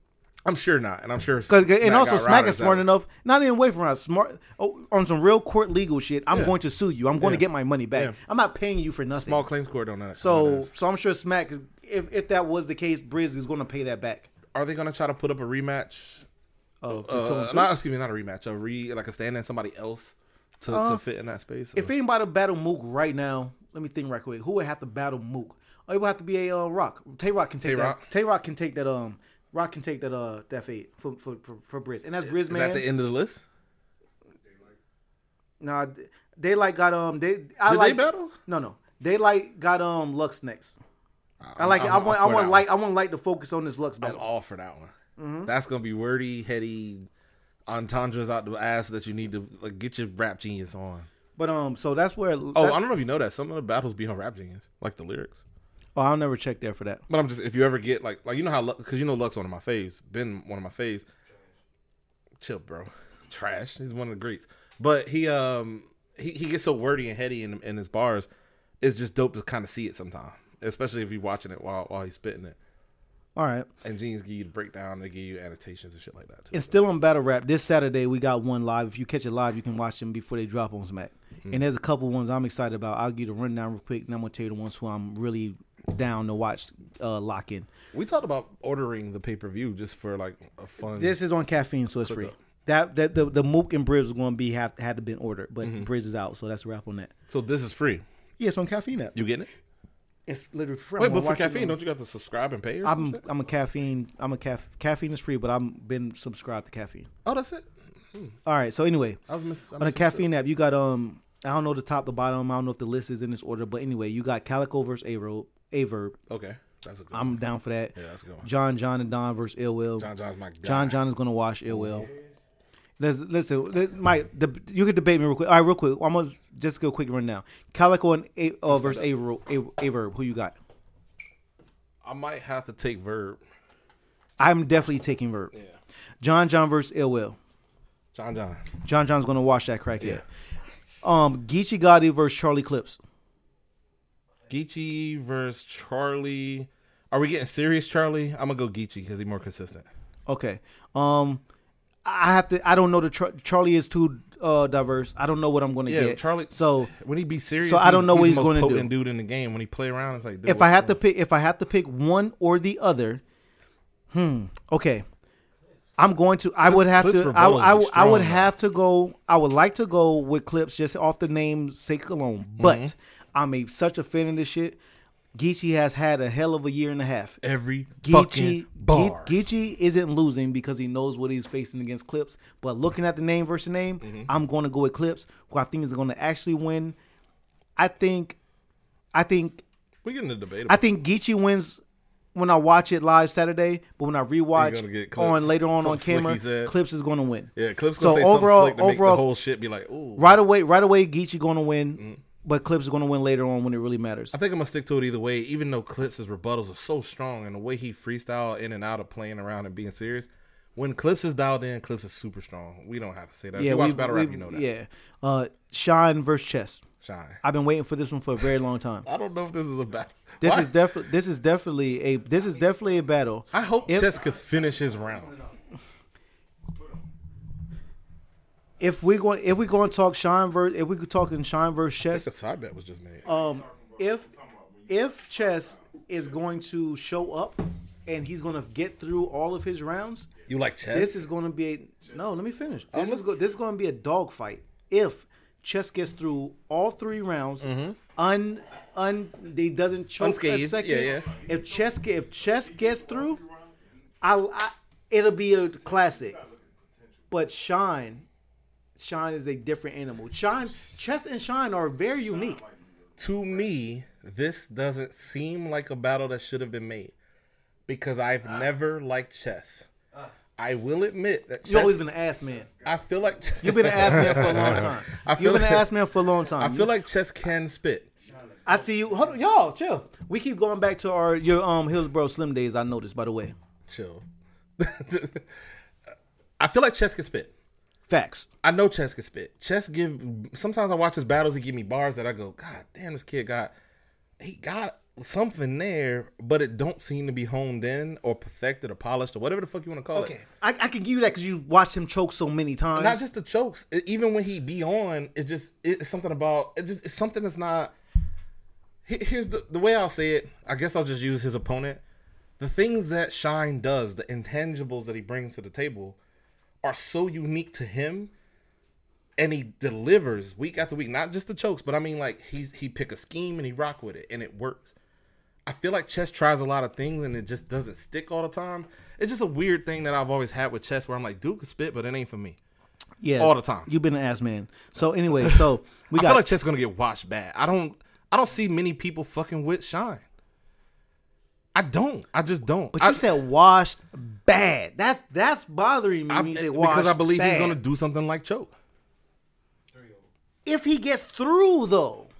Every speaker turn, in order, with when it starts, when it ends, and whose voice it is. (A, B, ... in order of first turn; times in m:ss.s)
0:00.4-0:02.9 A
0:01.5-0:09.4 B
0:07.2-0:08.2 A
0:09.2-0:10.7 A
0:10.2-0:14.3 B
0:14.5-0:16.2 A
0:16.8-0:17.7 B
0:16.9-0:21.9 A
0:20.7-0:21.0 B
0:21.8-0:32.8 B
0:27.6-0:28.0 A
0:32.2-0:33.4 A
0:35.6-0:40.8 B
0:37.7-0:38.3 A
0:41.4-0:42.7 A
0:41.6-0:44.2 B
0:44.0-0:44.9 A
0:45.2-0:45.5 B
0:45.5-0:47.1 A
0:47.7-0:51.1 A
0:51.4-0:52.8 B
0:52.6-0:55.4 A
0:56.0-0:57.0 B
0:57.1-1:01.1 A
1:02.4-1:08.3 A
1:08.8-1:12.6 A
1:13.4-1:13.7 B
1:13.8-1:16.8 A
1:16.5-1:27.7 B
1:27.9-1:31.2 A
1:31.0-1:37.1 B
1:32.0-1:32.3 A
1:35.6-1:35.9 A
1:37.3-1:38.0 A
1:38.4-1:39.2 B
1:39.2-1:39.5 A
1:40.3-1:41.8 B
1:41.0-1:43.2 A
1:42.8-1:47.1 B
1:47.2-1:48.4 A
1:48.5-1:49.2 B
1:49.3-1:50.3 A
1:49.8-1:56.2 B
1:56.3-1:57.4 A
1:57.1-2:00.1 B
1:58.0-1:58.5 A
2:00.0-2:01.0 A
2:00.6-2:02.1 B
2:01.7-2:02.1 A
2:03.0-2:10.6 B
2:08.7-2:09.1 A
2:12.0-2:13.4 A
2:14.4-2:15.5 B
2:16.2-2:17.4 B
2:18.1-2:18.6 A
2:18.8-2:20.2 B
2:21.0-2:23.0 B
2:24.5-2:29.9 A
2:30.3-2:31.4 B
2:32.0-2:36.9 B
2:35.9-2:41.0 A
2:37.6-2:38.9 B
2:40.5-2:43.2 B
2:44.1-2:45.0 B
2:46.0-2:54.8 B
2:46.6-2:48.5 A
2:52.6-2:52.9 A
2:55.4-2:57.4 B
2:57.4-2:59.3 A
2:58.0-3:07.0 B
3:04.0-3:04.3 A
3:07.8-3:08.4 B
3:09.1-3:09.6 B
3:10.0-3:10.8 A
3:10.7-3:11.8 B
3:12.4-3:19.2 B
3:14.6-3:16.7 A
3:17.6-3:20.4 A
3:20.2-3:24.4 B
3:24.3-3:34.7 A
3:33.6-3:36.9 B
3:37.0-3:37.4 A
3:37.4-3:39.1 B
3:39.0-3:40.7 A
3:40.4-3:44.2 B
3:43.5-3:45.4 A
3:48.8-3:52.3 B
3:52.1-3:53.3 A
3:53.2-3:54.4 B
3:54.9-4:00.3 B
4:00.5-4:01.2 A
4:00.9-4:13.4 B
4:02.9-4:03.3 A
4:07.6-4:08.0 A
4:10.2-4:11.4 A
4:14.2-4:16.4 B
4:17.3-4:18.2 B
4:19.0-4:22.6 B
4:23.2-4:27.1 A
4:27.9-4:29.9 A
4:30.6-4:32.0 A
4:31.6-4:32.8 B
4:32.8-4:35.9 A
4:33.6-4:36.9 B
4:36.6-4:38.1 A
4:38.6-4:43.5 B
4:43.9-4:44.2 A
4:44.8-4:45.5 A
4:46.6-4:47.5 A
4:48.1-4:48.5 B
4:48.6-4:53.7 A
4:54.4-5:00.3 A
5:00.1-5:03.2 B
5:03.0-5:07.9 A
5:09.1-5:12.0 A
5:12.6-5:16.2 A
5:16.8-5:18.3 A
5:19.4-5:25.0 A
5:25.7-5:32.6 A
5:33.2-5:36.4 B
5:33.4-5:33.9 A
5:35.4-5:40.2 A
5:41.7-5:43.2 A
5:42.9-5:47.8 B
5:46.3-5:48.7 A
5:50.6-5:52.3 B